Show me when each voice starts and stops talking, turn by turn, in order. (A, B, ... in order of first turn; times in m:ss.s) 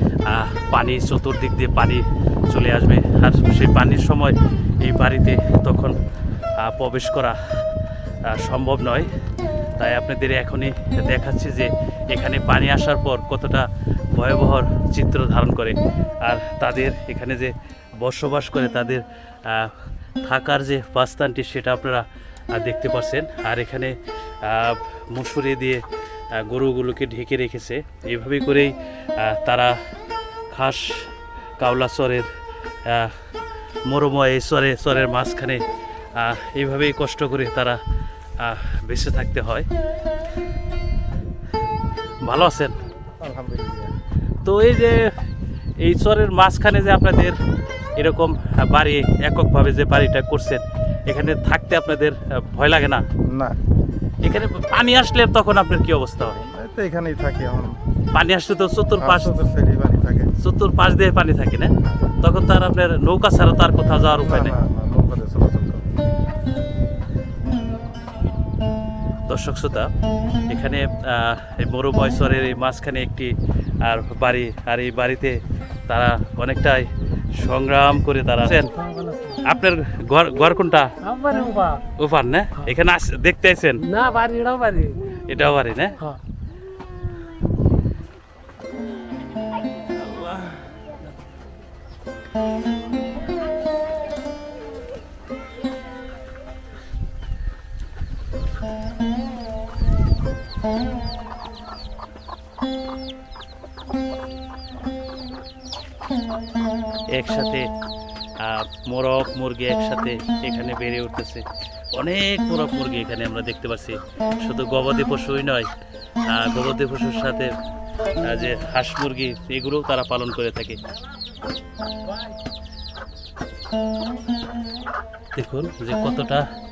0:00.2-0:06.0 A
0:06.6-0:07.4 A
0:08.3-0:09.1 A
0:09.8-0:29.8 A
0:30.5-0:31.1 A
0:31.6-0:32.3 A
0:32.8-0:33.1 A
0:33.9-0:35.6 A
0:36.2-0:37.8 A
0:38.4-0:39.6 A
0:42.2-0:42.7 A
0:43.2-0:43.9 B
0:44.4-0:44.9 A
0:45.8-0:47.4 A
0:48.0-0:53.0 A
0:53.3-0:53.6 B
0:54.2-0:56.4 A
0:56.4-0:57.8 B
0:58.1-0:59.3 A
0:59.0-1:00.3 B
1:00.4-1:04.6 A
1:04.2-1:06.0 B
1:09.3-1:09.9 A
1:10.5-1:13.3 A
1:13.8-1:16.9 A
1:17.4-1:18.7 A
1:18.5-1:19.4 C
1:19.4-1:20.9 A
1:21.0-1:21.8 C
1:22.0-1:23.8 A
1:23.8-1:25.0 C
1:25.3-1:26.0 A
1:47.1-1:47.7 A
1:48.4-1:55.7 A
1:56.3-1:57.5 A
1:58.2-2:00.8 A
2:05.3-2:06.4 A